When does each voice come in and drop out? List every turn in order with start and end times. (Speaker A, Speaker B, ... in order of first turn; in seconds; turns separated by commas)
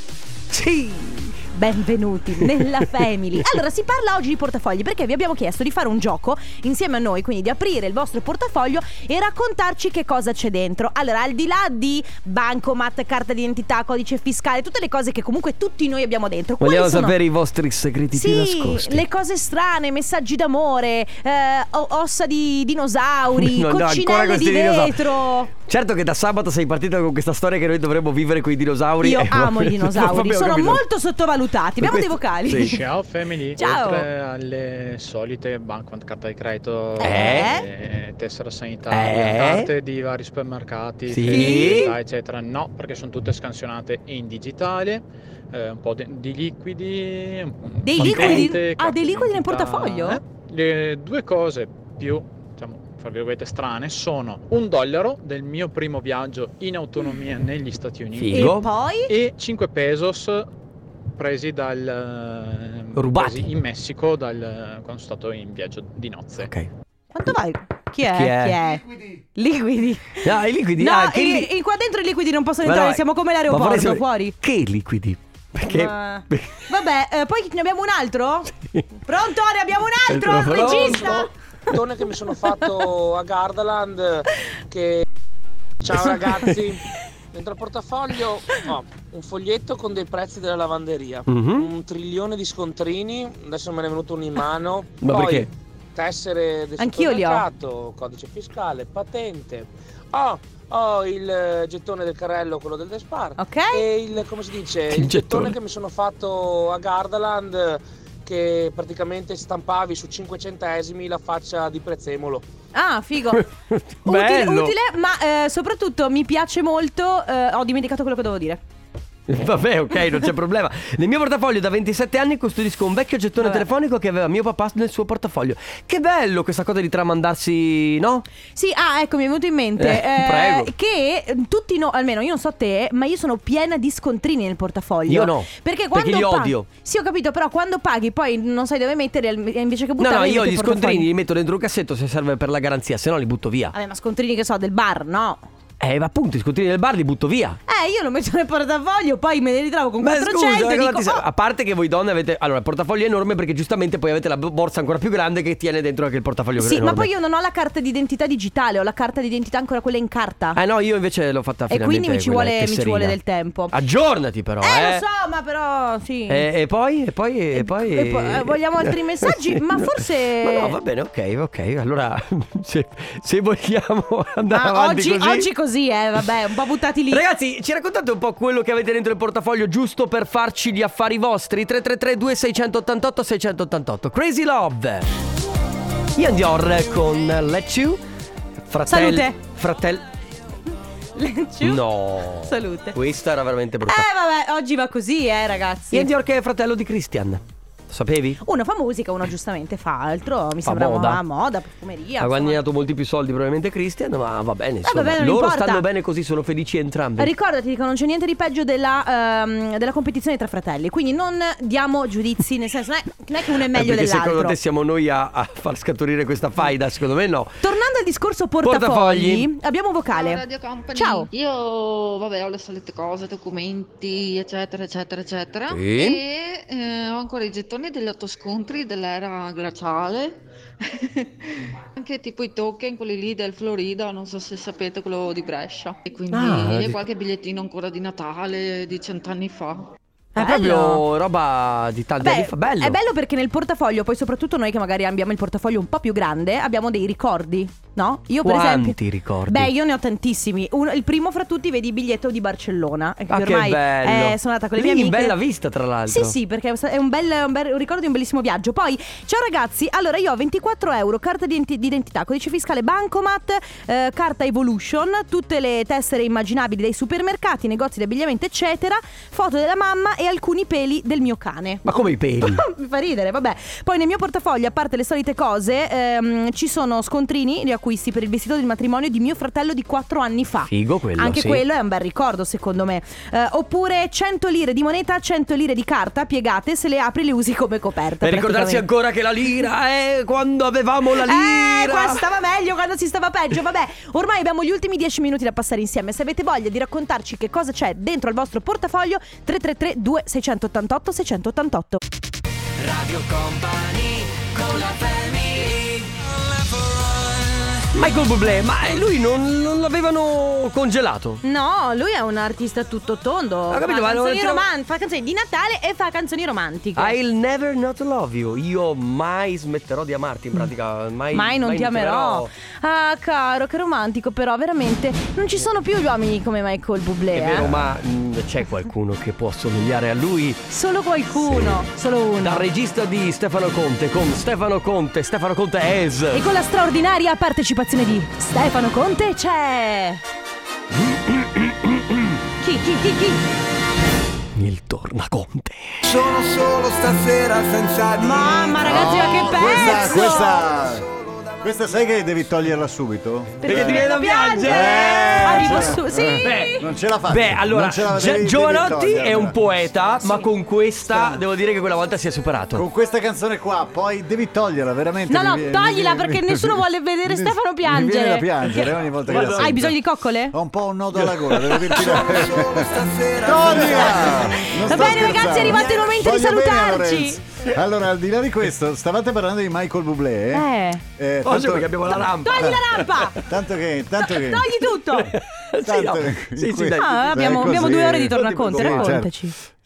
Speaker A: 0.5-1.4, Speaker B: 1.5-17.2, Speaker A: 16.6-19.0, Speaker B: 18.1-25.5, Speaker A: 23.3-30.8, Speaker B: 29.0-32.8, Speaker A: 31.8-32.8, Speaker C: 32.6-58.4, Speaker B: 33.5-34.1, Speaker B: 37.0-37.7, Speaker A: 37.0-37.5, Speaker A: 38.9-39.7, Speaker A: 41.1-41.9, Speaker B: 41.2-42.0, Speaker B: 47.8-50.2, Speaker A: 48.0-48.4, Speaker A: 58.1-58.7, Speaker B: 58.3-59.1, Speaker C: 59.1-60.5, Speaker C: 61.1-66.5, Speaker A: 62.9-63.5, Speaker A: 66.3-66.7, Speaker B: 67.1-74.3, Speaker A: 68.0-68.6, Speaker A: 70.2-71.5, Speaker A: 72.6-76.7, Speaker B: 75.6-78.5, Speaker A: 78.5-78.8, Speaker B: 79.0-81.3, Speaker A: 80.1-81.3, Speaker D: 80.5-85.0, Speaker D: 85.8-112.4, Speaker A: 85.9-86.4, Speaker A: 91.3-91.7, Speaker A: 95.0-95.5, Speaker B: 96.8-97.4, Speaker B: 103.4-103.8, Speaker A: 104.9-105.6, Speaker B: 112.7-113.4, Speaker A: 113.3-114.8, Speaker B: 114.0-118.6, Speaker A: 119.3-128.2, Speaker B: 128.6-141.1, Speaker A: 129.8-130.7, Speaker A: 135.1-136.7, Speaker A: 140.0-143.7, Speaker B: 143.7-145.4, Speaker A: 145.8-147.6, Speaker B: 147.7-151.2, Speaker A: 150.0-157.1, Speaker B: 156.6-160.6, Speaker A: 160.5-163.2, Speaker B: 161.7-163.8, Speaker A: 163.7-165.0, Speaker B: 164.6-166.5, Speaker A: 166.3-175.5, Speaker B: 167.5-170.8, Speaker B: 174.5-177.2, Speaker A: 177.1-185.1, Speaker A: 186.2-188.0, Speaker A: 188.6-190.0, Speaker B: 188.9-189.4, Speaker B: 191.1-193.0, Speaker A: 191.6-194.1, Speaker B: 193.8-196.1, Speaker A: 195.9-198.4, Speaker B: 198.4-202.6, Speaker A: 200.6-201.2, Speaker A: 202.2-207.3, Speaker B: 204.8-205.8, Speaker B: 207.2-214.6, Speaker A: 213.7-217.6, Speaker B: 217.6-220.4, Speaker A: 218.6-219.5, Speaker E: 220.1-231.3, Speaker B: 220.9-221.3, Speaker A: 225.7-226.2, Speaker E: 231.9-239.9, Speaker A: 236.3-237.0, Speaker A: 240.3-243.0, Speaker B: 240.4-241.0, Speaker B: 242.2-255.4, Speaker A: 248.4-249.7, Speaker A: 253.3-256.4, Speaker B: 256.1-288.9, Speaker A: 271.8-272.6, Speaker A: 280.7-281.6, Speaker A: 288.2-292.2, Speaker B: 291.2-302.0, Speaker A: 302.8-306.3, Speaker A: 307.7-311.4, Speaker B: 311.4-317.1, Speaker A: 313.7-314.7, Speaker A: 316.9-322.5, Speaker B: 321.3-327.7, Speaker A: 327.3-330.6, Speaker B: 330.7-332.6, Speaker A: 331.3-331.8, Speaker A: 332.4-336.4, Speaker B: 336.3-340.2, Speaker A: 341.0-342.4, Speaker B: 342.6-343.4, Speaker A: 344.5-346.0, Speaker F: 346.0-351.9, Speaker B: 348.2-350.6, Speaker G: 348.9-351.0, Speaker A: 349.6-350.2, Speaker G: 351.6-354.1, Speaker B: 353.6-356.9, Speaker A: 353.6-362.9, Speaker G: 354.6-359.5, Speaker B: 360.2-360.5, Speaker G: 362.7-369.9, Speaker B: 365.3-370.6, Speaker A: 369.2-369.9, Speaker G: 370.5-372.9, Speaker A: 371.1-374.6, Speaker F: 371.9-374.4, Speaker G: 373.4-382.8, Speaker B: 373.8-377.4, Speaker B: 380.5-381.0, Speaker A: 381.4-383.4, Speaker B: 382.4-383.4, Speaker G: 383.4-384.7, Speaker B: 384.3-385.4, Speaker A: 384.9-389.2, Speaker G: 385.9-389.3, Speaker B: 386.9-389.5